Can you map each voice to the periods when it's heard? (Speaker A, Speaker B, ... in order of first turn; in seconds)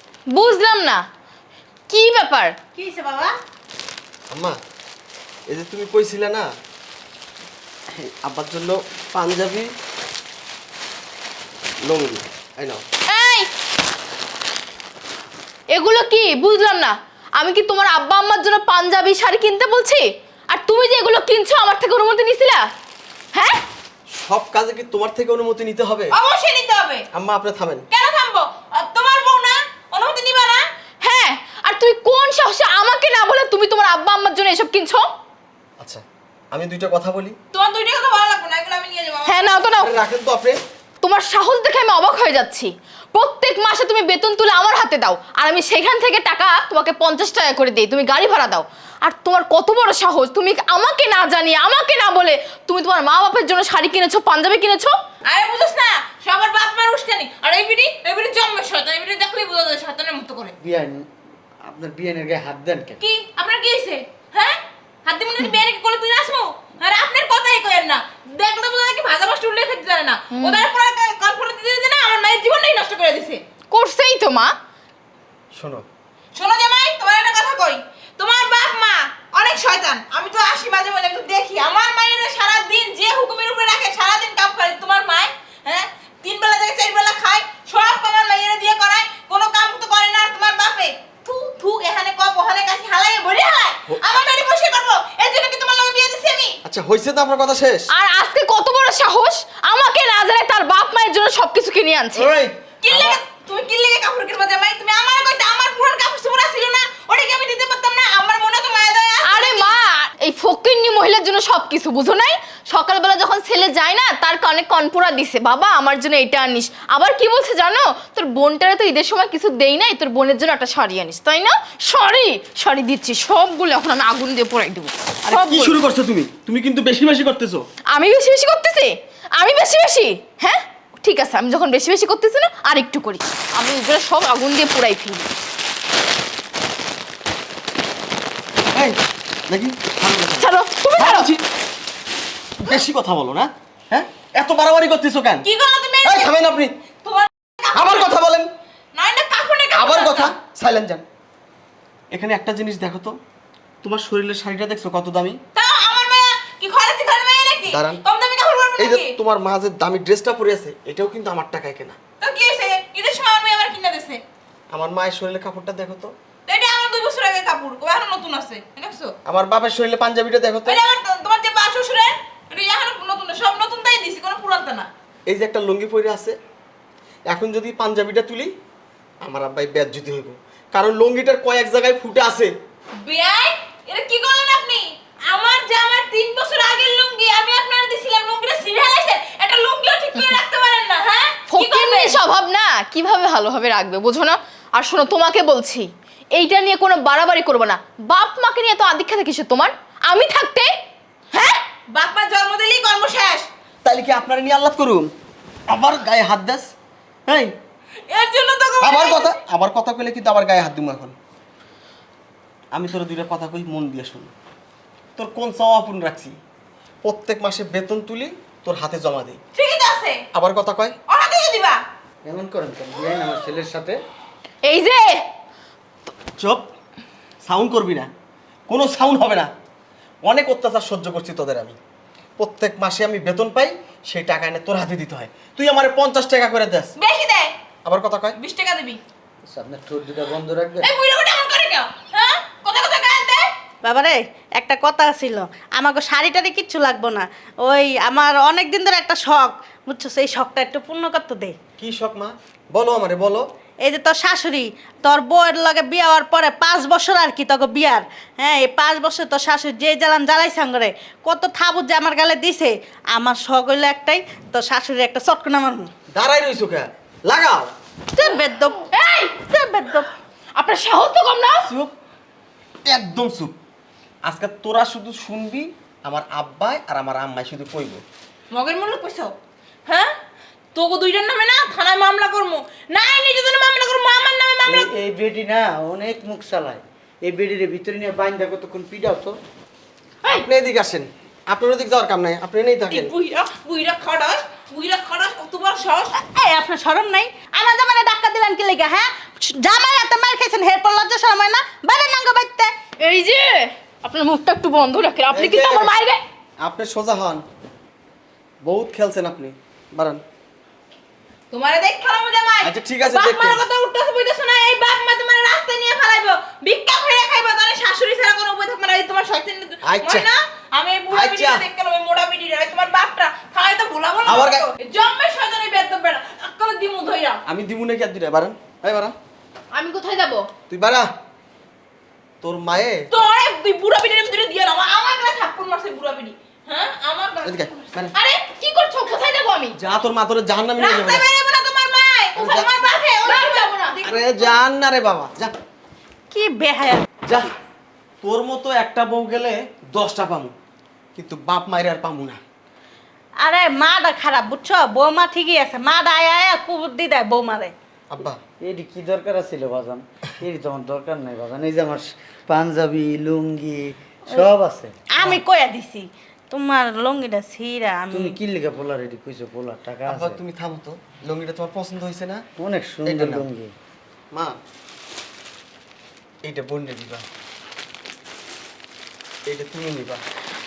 Speaker A: 0.3-1.0, 1.9-2.5, 13.1-13.5, 15.7-22.6, 31.0-35.0, 39.2-39.9, 41.0-55.0, 70.3-70.7, 73.7-74.5, 97.9-102.3, 109.2-125.8, 127.9-135.3, 140.4-141.3, 191.5-200.7, 224.6-225.2, 268.9-269.3, 270.5-271.7, 303.0-306.2, 329.7-330.5, 338.5-339.7, 343.2-344.0
Speaker B: 2.7-3.3, 243.8-251.5, 253.8-265.9, 268.1-268.8, 269.5-270.1, 296.1-302.7, 346.3-347.1, 353.4-357.7, 365.2-368.4
Speaker C: 4.3-4.6, 5.5-6.5, 8.0-9.7, 11.8-12.8, 24.1-26.1, 27.1-27.8, 35.8-37.4, 39.8-40.6, 75.5-75.8, 96.6-97.9, 102.2-103.2, 125.2-127.7, 138.7-141.4, 142.6-145.5, 146.0-146.7, 147.7-148.5, 149.7-151.0, 152.1-153.2, 153.8-155.4, 157.7-158.0, 158.8-162.0, 164.7-166.1, 169.2-170.8, 175.3-176.4, 177.3-178.5, 179.2-182.5, 203.8-205.1, 205.7-206.7, 207.3-207.5, 208.8-211.2, 212.7-214.3, 215.2-216.3, 217.0-219.4, 220.3-221.0, 226.4-226.6, 227.4-228.1, 228.7-229.5, 230.2-231.8, 232.4-236.9, 237.8-238.4, 251.8-253.4, 266.1-267.7, 271.6-271.9, 272.8-273.6, 274.2-278.0, 290.3-293.1, 305.3-306.0, 306.6-307.4, 308.6-310.2, 312.6-313.6, 319.8-320.3, 321.1-321.6, 324.2-324.7, 327.5-329.1, 330.7-331.1, 332.4-333.0, 337.4-338.1, 339.8-341.3, 342.3-342.9, 344.0-345.5, 347.2-347.5, 348.2-350.5, 351.1-352.4, 358.1-358.4, 370.1-372.4, 373.0-373.5, 376.4-377.2, 379.5-380.2
Speaker D: 26.1-27.0, 27.9-30.6, 37.5-39.6, 55.2-60.5, 63.0-73.4, 76.3-96.6, 102.8-109.8, 145.4-146.3, 147.0-148.2, 148.9-150.3, 155.5-159.1, 162.2-164.2, 166.5-169.1, 170.6-174.9, 183.0-192.2, 201.3-203.5, 208.1-209.3, 219.5-220.2, 221.1-221.8, 237.0-237.5, 238.3-239.0, 240.8-243.5, 278.5-279.3, 279.9-280.1, 280.7-284.9, 292.9-296.1, 311.5-327.4, 333.1-338.4, 340.8-344.6
Speaker E: 60.6-61.0, 61.6-63.0, 222.2-224.0, 239.4-240.9, 284.6-289.3, 358.6-364.9, 368.1-370.4, 372.6-373.7